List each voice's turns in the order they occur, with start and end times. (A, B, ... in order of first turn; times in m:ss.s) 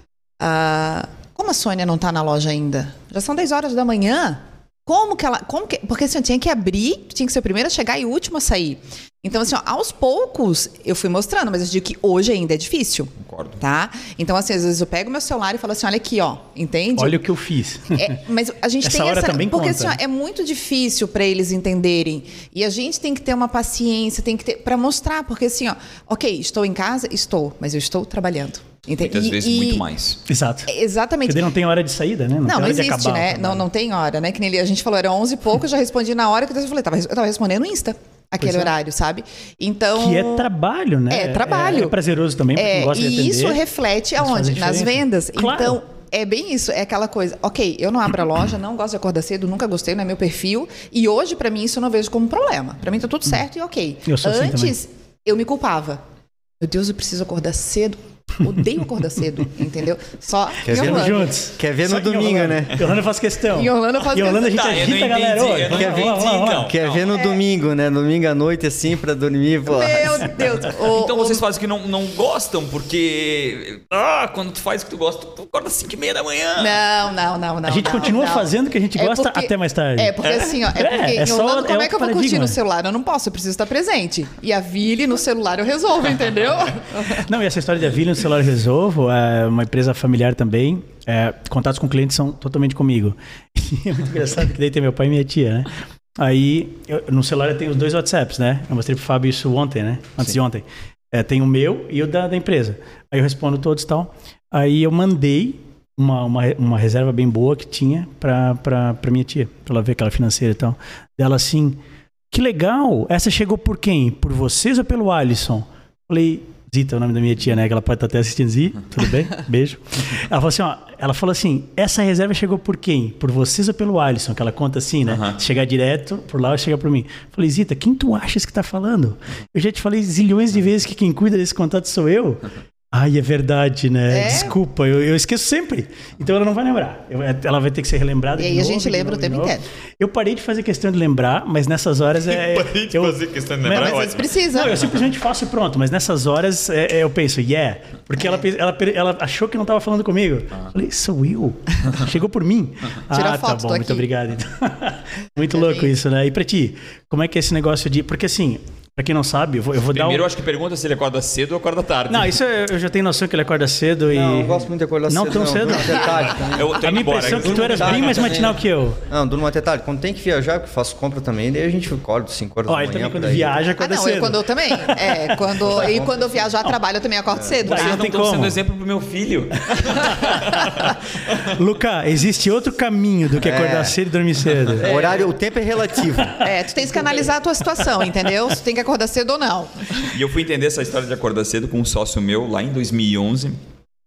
0:00.4-0:17.2 A
0:13.2-0:13.6 B
0:17.0-0:18.2 C
0:17.9-0:29.8 A
0:18.8-0:20.0 C
0:29.0-0:30.2 B
0:30.3-0:30.7 C
0:30.7-0:31.4 A
0:31.3-0:33.6 C
0:32.4-0:40.5 A
0:38.4-0:38.7 C
0:39.9-0:43.6 C
0:41.1-0:42.0 A
0:42.5-0:56.0 A
0:44.2-0:45.8 C
0:54.0-0:54.7 C
0:56.6-1:01.3 A
1:00.6-1:02.9 D
1:00.6-1:06.7 C
1:03.5-1:04.7 A
1:04.3-1:07.1 B
1:05.7-1:10.3 D
1:07.1-1:07.4 A
1:09.6-1:11.4 A
1:10.7-1:16.8 B
1:16.6-1:27.2 A
1:17.6-1:20.1 C
1:20.2-1:20.6 B
1:20.7-1:22.6 C
1:27.2-1:51.8 C
1:52.3-2:40.3 C
2:05.1-2:05.4 B
2:14.1-2:14.6 A
2:18.4-2:19.6 A
2:22.3-2:24.7 B
2:23.7-2:24.8 A
2:33.1-2:34.1 A
2:35.5-2:35.9 A
2:39.9-2:42.4 B
2:42.1-2:44.6 C
2:44.1-2:53.6 D
2:45.1-2:49.0 C
2:46.1-2:48.4 B
2:52.7-2:55.4 C
2:53.8-2:58.1 A
2:55.5-2:56.5 D
2:57.3-2:57.6 D
2:57.6-2:58.6 C
2:57.6-3:01.5 B
3:00.0-3:00.4 C
3:01.5-3:04.9 C
3:03.4-3:04.0 D
3:04.8-3:05.2 B
3:04.8-3:06.4 D
3:04.9-3:05.2 A
3:06.4-3:10.1 A
3:10.0-3:13.6 B